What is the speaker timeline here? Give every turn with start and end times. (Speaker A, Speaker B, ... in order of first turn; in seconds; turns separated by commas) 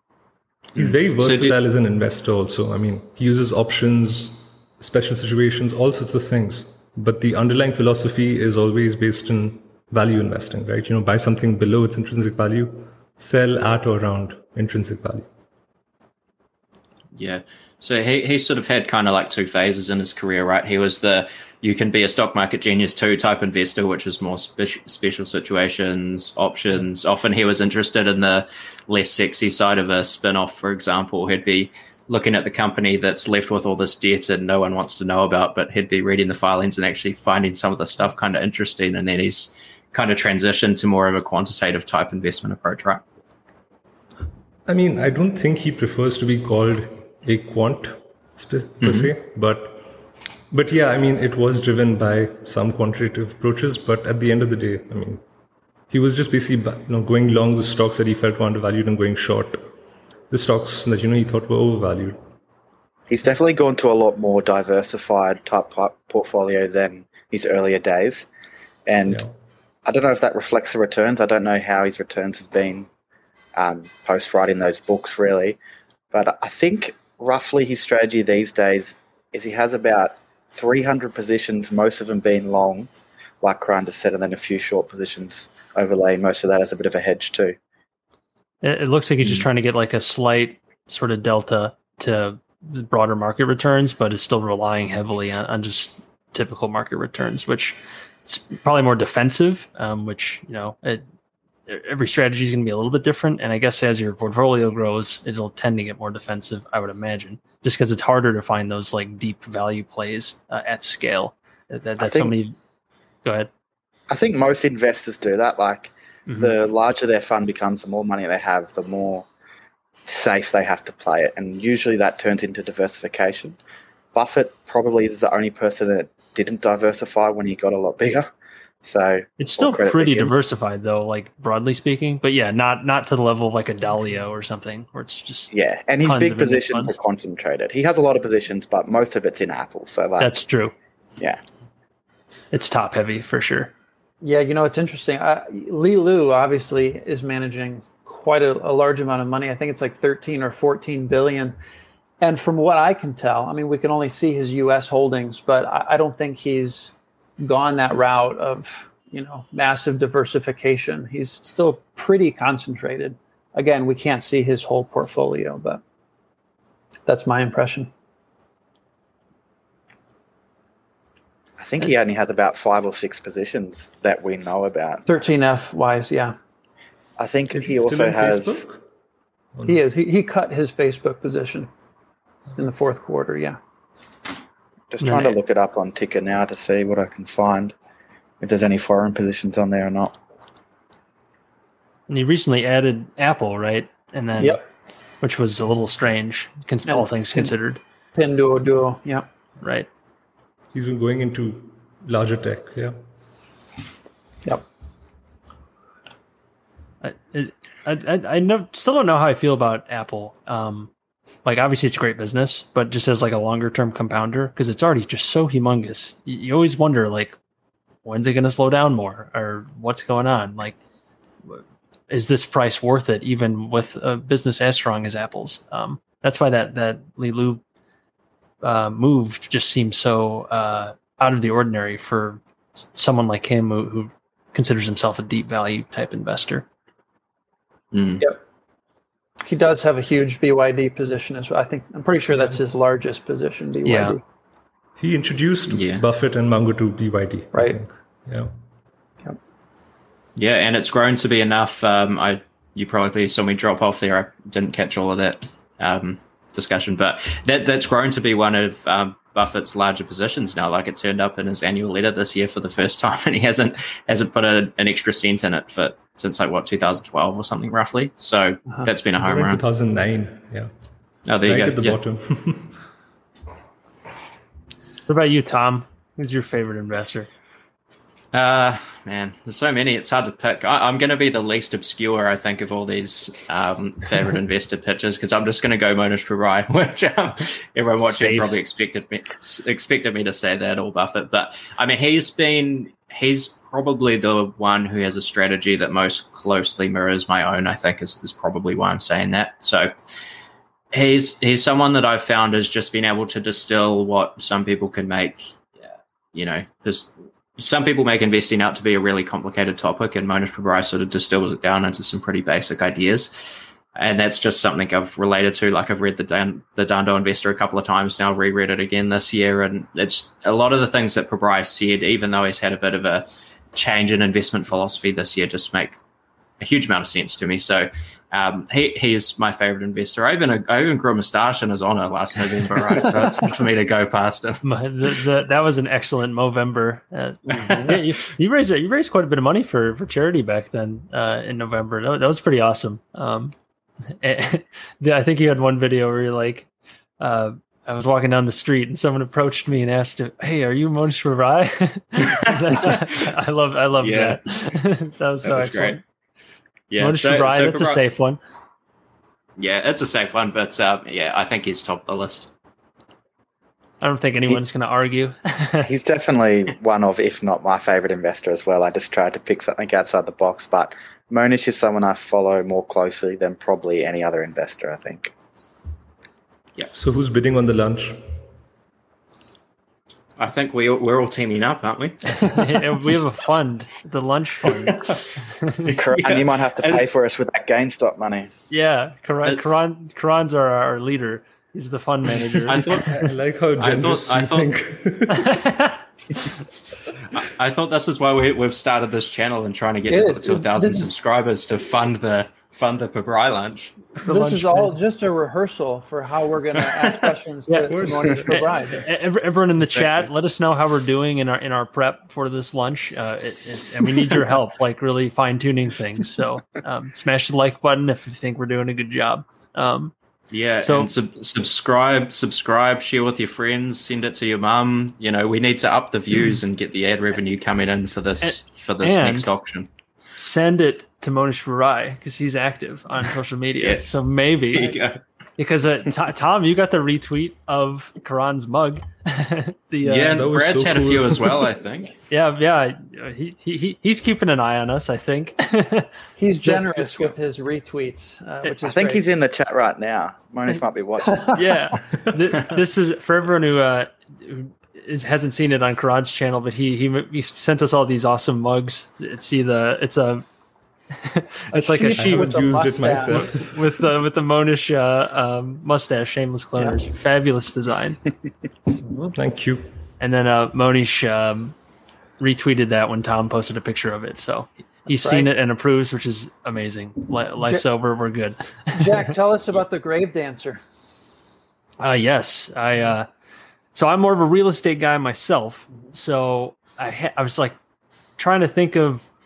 Speaker A: 0.7-15.3, Speaker B: 0.8-1.6, Speaker B: 17.1-43.0, Speaker A: 44.7-49.9, Speaker B: 48.8-49.1, Speaker A: 50.5-55.2, Speaker A: 55.9-59.7, Speaker A: 60.3-62.2, Speaker C: 63.1-68.3, Speaker C: 68.9-69.2, Speaker C: 69.9-72.9, Speaker C: 73.6-75.6, Speaker C: 76.1-82.9, Speaker C: 83.4-87.6, Speaker D: 88.6-101.0, Speaker D: 101.7-112.5, Speaker C: 112.0-112.3, Speaker D: 113.2-113.5, Speaker C: 114.1-119.3, Speaker D: 116.3-116.5, Speaker C: 120.1-123.6, Speaker C: 124.1-128.3, Speaker C: 128.8-130.4, Speaker D: 129.4-137.0, Speaker C: 135.5-140.3, Speaker D: 140.2-140.7, Speaker D: 142.5-143.7, Speaker E: 144.2-151.6, Speaker E: 152.2-165.8, Speaker E: 167.1-167.9, Speaker C: 171.6-175.1, Speaker E: 175.1-176.3, Speaker C: 177.2-178.6, Speaker A: 177.5-178.8, Speaker E: 179.7-181.7, Speaker E: 182.6-183.6, Speaker C: 184.9-187.7, Speaker D: 185.0-185.4, Speaker C: 188.4-190.2, Speaker D: 192.1-194.6, Speaker D: 195.2-197.8, Speaker E: 196.9-197.5, Speaker E: 198.1-199.3, Speaker D: 199.6-199.9, Speaker A: 200.7-203.0, Speaker D: 207.0-210.9, Speaker D: 211.4-217.3, Speaker D: 218.1-220.8, Speaker D: 221.5-227.6, Speaker D: 228.6-232.4, Speaker D: 232.9-236.7, Speaker B: 237.9-238.2, Speaker E: 239.4-244.2, Speaker D: 243.8-244.2, Speaker A: 245.0-248.5, Speaker B: 245.7-246.1, Speaker E: 247.5-247.8, Speaker B: 250.3-269.6, Speaker A: 269.2-270.7, Speaker B: 271.3-272.0, Speaker A: 271.4-272.8, Speaker D: 275.1-277.3, Speaker B: 278.3-299.9, Speaker D: 288.0-288.5, Speaker B: 300.9-326.0, Speaker B: 326.6-334.6, Speaker D: 334.6-343.5, Speaker B: 337.5-338.0, Speaker D: 344.2-346.7, Speaker D: 347.2-356.0, Speaker B: 354.0-354.4, Speaker B: 355.4-356.0, Speaker B: 356.9-358.0, Speaker D: 357.0-358.4, Speaker B: 359.6-362.5, Speaker D: 364.0-365.9, Speaker C: 365.9-375.3, Speaker A: 376.9-378.4, Speaker B: 380.4-382.7, Speaker D: 382.4-385.9, Speaker B: 385.9-387.0, Speaker C: 385.9-388.5, Speaker D: 388.7-392.9, Speaker B: 392.7-393.2, Speaker A: 393.1-395.7, Speaker B: 393.8-394.7, Speaker D: 395.4-396.0, Speaker B: 397.3-403.9, Speaker E: 400.1-401.1, Speaker D: 404.3-404.9, Speaker E: 404.3-409.1, Speaker D: 407.7-408.0, Speaker A: 407.8-408.8, Speaker D: 408.5-420.1, Speaker B: 409.9-410.3, Speaker B: 420.5-429.9, Speaker D: 420.8-421.1, Speaker D: 428.4-429.5, Speaker D: 430.4-434.9, Speaker B: 433.8-434.2, Speaker B: 434.7-435.2, Speaker D: 435.6-440.5, Speaker B: 440.0-442.1, Speaker A: 440.3-441.6, Speaker D: 442.3-446.1, Speaker E: 446.4-449.2, Speaker D: 446.6-447.3, Speaker C: 448.9-451.6, Speaker E: 451.3-451.6, Speaker D: 451.5-460.4, Speaker D: 461.2-462.6, Speaker E: 461.7-463.6, Speaker A: 462.2-464.0, Speaker D: 463.3-468.2, Speaker E: 469.1-469.4, Speaker A: 469.3-469.9, Speaker D: 470.2-471.8, Speaker D: 472.4-479.3, Speaker E: 475.2-475.5, Speaker E: 478.9-480.8, Speaker D: 482.0-483.3, Speaker D: 483.9-487.8, Speaker D: 488.4-489.3